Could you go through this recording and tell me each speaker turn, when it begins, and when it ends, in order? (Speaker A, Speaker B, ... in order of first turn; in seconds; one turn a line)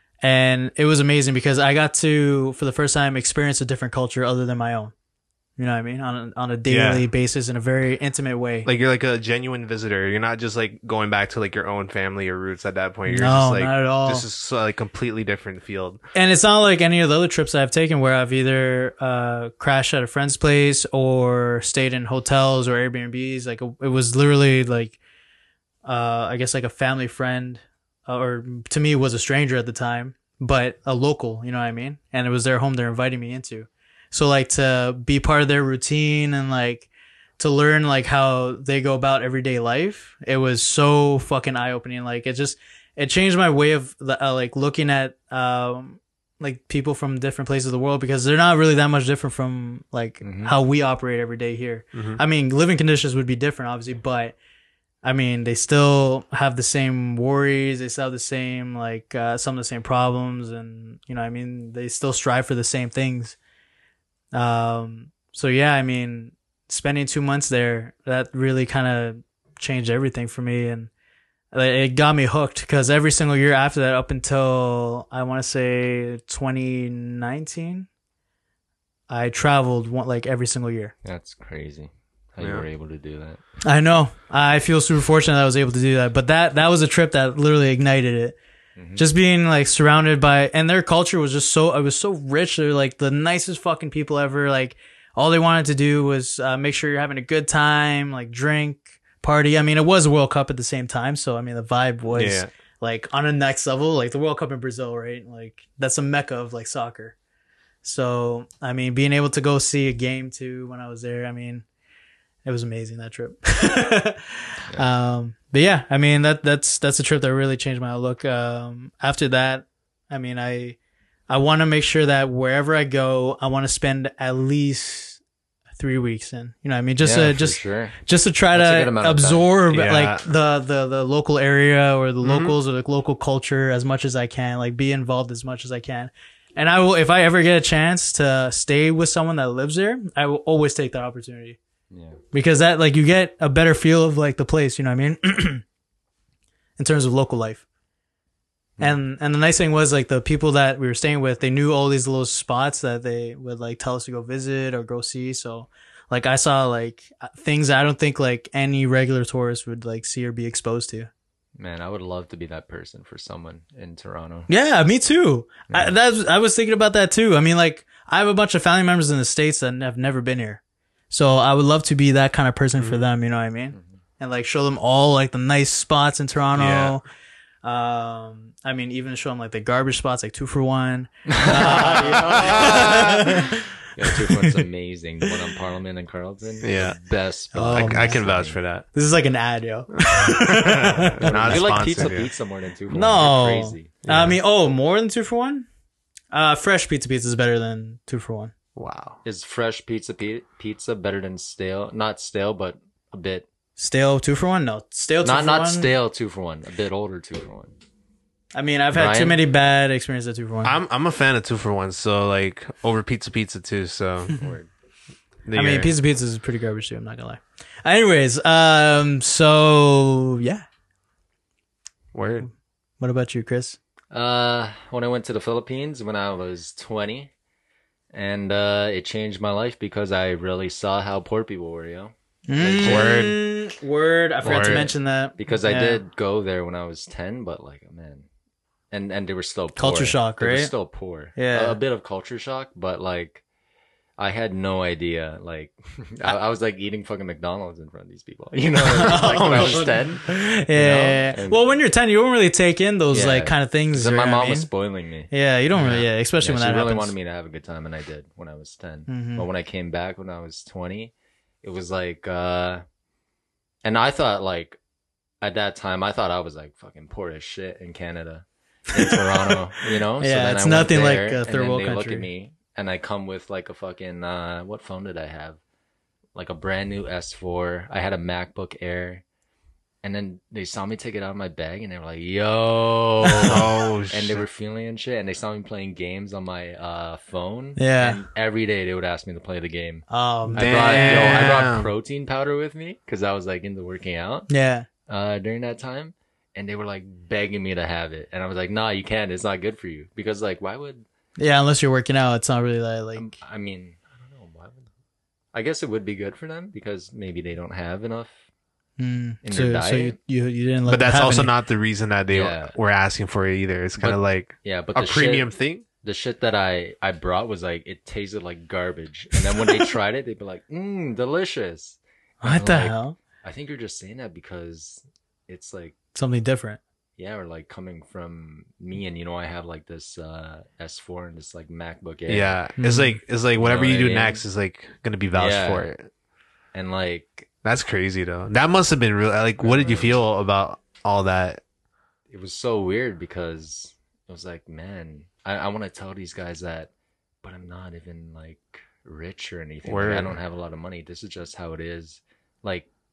Speaker A: 0.2-4.9
Speaker A: 5.6-8.7
Speaker B: 6.7-7.1
Speaker B: 8.7-16.0
Speaker A: 13.1-14.3
Speaker A: 16.1-25.0
Speaker A: 25.9-54.4
Speaker C: 50.2-50.5
Speaker B: 51.9-52.2
Speaker A: 55.0-63.4
Speaker A: 64.3-70.9
Speaker A: 71.5-77.9
Speaker A: 79.1-80.9
Speaker C: 81.0-83.4
Speaker B: 82.4-82.7
Speaker A: 83.6-88.4
Speaker C: 88.8-89.0
Speaker A: 89.0-107.2
Speaker B: 102.1-102.5
Speaker A: 107.8-111.7
Speaker A: 112.5-120.8
Speaker A: 121.3-125.2
Speaker A: 125.8-141.6
Speaker C: 127.0-129.5
Speaker B: 129.7-130.2
Speaker B: 132.2-132.6
Speaker C: 141.9-142.2
Speaker A: 142.3-145.6
Speaker A: 146.8-147.7
Speaker A: 148.8-161.1
Speaker C: 161.6-164.5
Speaker A: 164.5-177.0
Speaker B: 176.6-177.0
Speaker A: 177.6-184.6
Speaker C: 181.3-188.6
Speaker B: 181.9-183.4
Speaker B: 186.6-187.0
Speaker A: 187.5-188.2
Speaker B: 187.7-188.9
Speaker A: 188.9-192.1
Speaker B: 190.0-192.3
Speaker C: 191.2-194.0
Speaker A: 192.9-195.7
Speaker B: 194.1-194.4
Speaker A: 196.3-198.5
Speaker B: 198.8-199.2
Speaker C: 199.2-203.5
Speaker A: 203.8-205.9
Speaker C: 205.2-207.7
Speaker A: 208.5-210.8
Speaker C: 208.9-209.4
Speaker B: 210.6-214.4
Speaker C: 214.4-214.7
Speaker B: 215.5-215.9
Speaker A: 215.6-220.7
Speaker B: 222.1-222.5
Speaker A: 223.0-223.8
Speaker C: 224.1-227.3
Speaker C: 228.1-233.2
Speaker A: 232.5-236.0
Speaker B: 232.8-233.4
Speaker B: 234.4-234.9
Speaker C: 234.5-234.8
Speaker C: 235.4-238.3
Speaker C: 238.9-243.4
Speaker A: 239.8-240.7
Speaker A: 241.3-241.8
Speaker C: 244.2-251.6
Speaker A: 248.8-254.7
Speaker B: 249.0-249.9
Speaker C: 253.1-262.8
Speaker A: 255.3-257.1
Speaker A: 259.1-259.5
Speaker C: 263.8-264.8
Speaker C: 265.4-275.6
Speaker A: 269.0-272.3
Speaker C: 276.4-279.2
Speaker C: 280.0-294.5
Speaker B: 283.4-284.4
Speaker A: 287.8-288.2
Speaker A: 290.1-291.7
Speaker B: 290.6-291.9
Speaker A: 294.5-294.9
Speaker C: 295.1-301.1
Speaker A: 301.4-303.3
Speaker C: 303.2-304.9
Speaker C: 305.5-308.3
Speaker A: 309.0-311.5
Speaker C: 309.4-310.2
Speaker B: 310.9-315.9
Speaker C: 312.3-312.8
Speaker C: 314.0-315.5
Speaker C: 316.0-326.0
Speaker A: 322.4-323.2
Speaker A: 326.1-326.8
Speaker C: 327.2-332.6
Speaker B: 332.3-336.1
Speaker A: 332.8-333.2
Speaker C: 333.6-334.4
Speaker C: 335.4-335.9
Speaker C: 336.7-337.5
Speaker B: 337.6-341.6
Speaker C: 339.6-340.2
Speaker C: 342.3-346.9
Speaker C: 347.4-352.9
Speaker B: 349.9-350.4